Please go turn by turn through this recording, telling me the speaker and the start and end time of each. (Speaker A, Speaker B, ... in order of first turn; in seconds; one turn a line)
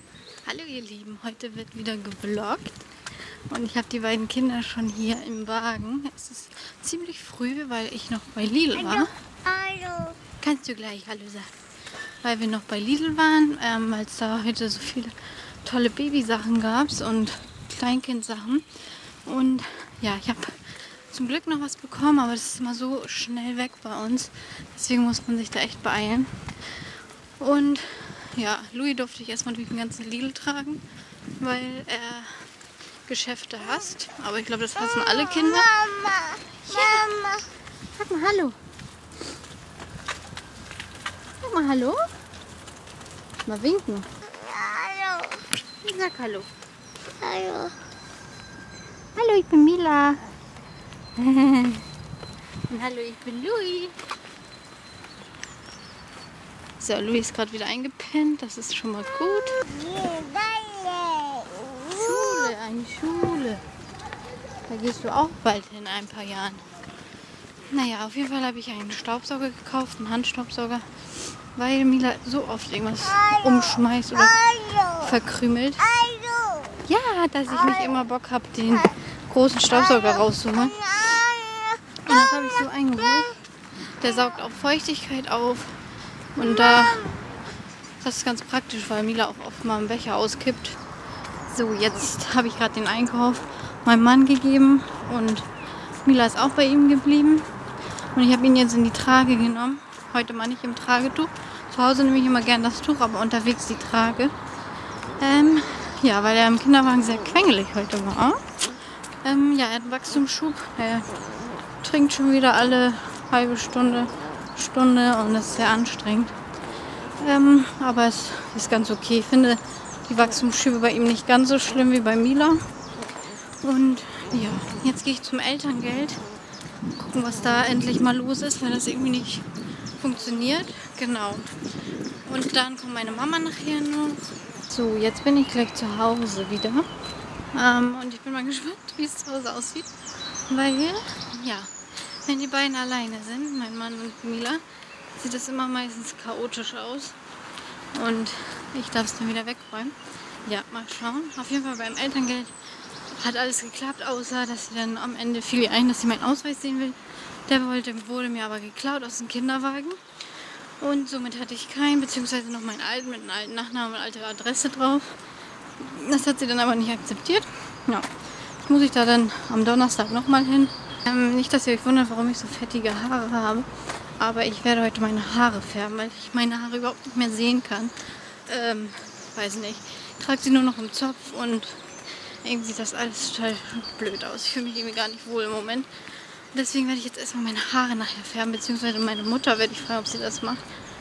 Speaker A: 0.4-2.9
Speaker A: 3.5-9.1
Speaker B: 8.8-10.2
Speaker A: 10.4-11.5
Speaker A: 12.2-18.6
Speaker A: 19.2-26.8
Speaker A: 27.4-30.8
Speaker A: 31.4-32.5
Speaker A: 33.0-35.8
Speaker B: 35.5-36.4
Speaker A: 36.5-37.4
Speaker A: 37.9-38.6
Speaker A: 41.4-42.0
Speaker A: 43.5-44.0
Speaker B: 44.4-45.4
Speaker A: 45.8-46.5
Speaker B: 47.2-47.7
Speaker A: 49.1-50.2
Speaker A: 51.1-51.9
Speaker A: 52.7-53.9
Speaker A: 56.8-59.6
Speaker B: 59.7-61.8
Speaker A: 61.9-63.6
Speaker A: 64.7-66.6
Speaker A: 67.7-70.9
Speaker A: 71.5-75.9
Speaker B: 74.5-75.0
Speaker B: 75.9-76.8
Speaker A: 76.8-81.1
Speaker B: 81.0-81.8
Speaker A: 82.0-83.4
Speaker A: 84.0-85.8
Speaker A: 86.3-87.1
Speaker A: 88.0-90.8
Speaker A: 91.5-95.5
Speaker A: 96.0-97.5
Speaker A: 98.1-104.3
Speaker A: 105.2-108.5
Speaker A: 109.2-111.1
Speaker A: 111.8-116.4
Speaker A: 117.2-122.6
Speaker A: 123.6-126.2
Speaker A: 127.0-129.4
Speaker A: 130.0-131.5
Speaker A: 132.2-136.9
Speaker A: 137.5-139.9
Speaker A: 140.5-144.6
Speaker A: 145.2-147.2
Speaker A: 147.9-152.5
Speaker A: 153.1-160.0
Speaker A: 160.8-165.2
Speaker A: 165.8-168.1
Speaker A: 168.6-185.9
Speaker A: 186.5-190.6